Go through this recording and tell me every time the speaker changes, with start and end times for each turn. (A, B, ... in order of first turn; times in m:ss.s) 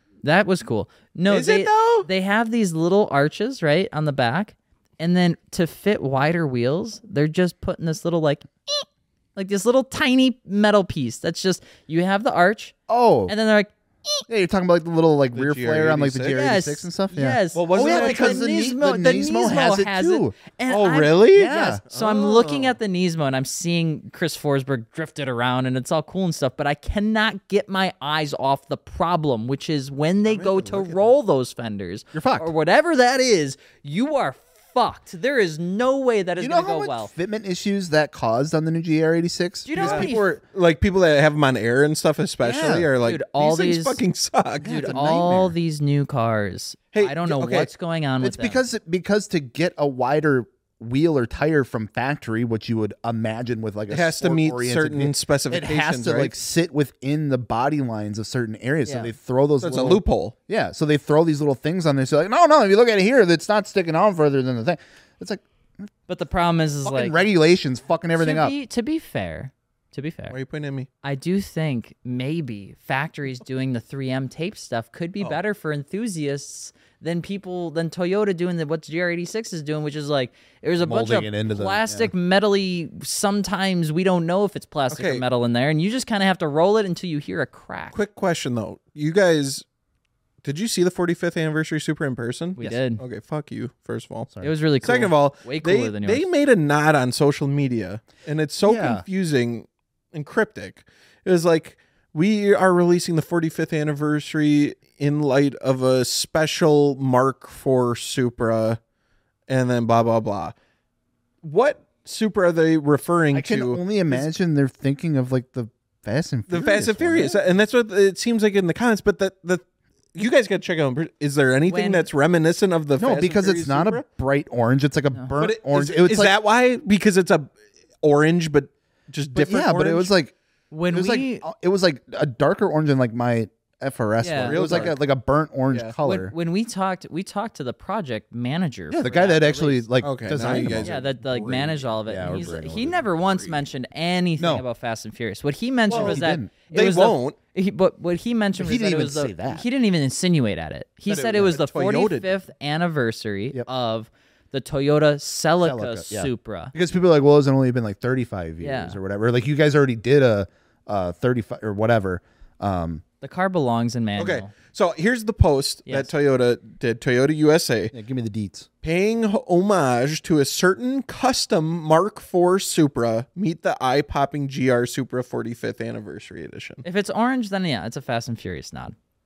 0:00.2-0:12.7 A
0:01.3-0:02.1 B
0:12.9-0:13.3 C
0:13.3-0:14.2 A
0:14.3-0:20.3 C
0:15.3-0:16.4 B
0:16.3-0:37.1 A
0:17.5-0:18.4 B
0:20.7-0:22.8 B
0:21.3-0:21.8 C
0:30.2-0:31.0 B
0:32.1-0:32.5 C
0:36.4-0:40.4 C
0:39.6-0:40.3 A
0:39.8-0:44.8 B
0:42.4-0:42.9 C
0:43.0-0:44.0 A
0:44.6-0:45.6 C
0:44.6-0:48.6 A
0:46.9-0:47.7 B
0:48.2-1:05.4 C
0:53.9-0:56.3 B
0:58.8-0:59.1 A
0:59.6-1:00.3 B
1:06.1-1:07.2 A
1:06.8-1:08.5 C
1:08.2-1:10.4 A
1:10.3-1:10.9 B
1:11.0-1:28.0 A
1:20.8-1:22.1 C
1:24.9-1:25.2 B
1:27.9-1:29.6 B
1:30.4-1:34.3 B
1:32.6-1:33.0 A
1:34.4-1:36.3 A
1:34.8-1:48.8 B
1:38.6-1:39.0 C
1:49.5-1:50.5 B
1:51.4-1:54.3 B
1:53.3-1:57.4 C
1:56.5-1:59.6 B
2:00.1-2:04.0 B
2:01.6-2:02.1 A
2:03.0-2:06.3 C
2:05.4-2:07.5 B
2:08.0-2:10.1 B
2:09.3-2:10.3 C
2:10.7-2:11.4 A
2:10.9-2:16.3 C
2:14.2-2:14.9 A
2:14.4-2:15.0 B
2:16.0-2:19.8 A
2:18.9-2:23.0 C
2:20.0-2:21.0 B
2:20.7-2:36.7 A
2:23.2-2:23.5 B
2:24.4-2:24.6 C
2:25.9-2:27.4 B
2:25.9-2:26.5 C
2:28.6-2:29.6 C
2:31.1-2:31.5 C
2:31.4-2:32.3 B
2:35.6-2:43.0 C
2:38.6-2:39.0 A
2:43.2-2:44.5 A
2:44.2-2:47.9 B
2:47.9-2:48.7 C
2:48.8-2:56.8 B
2:56.8-2:58.9 A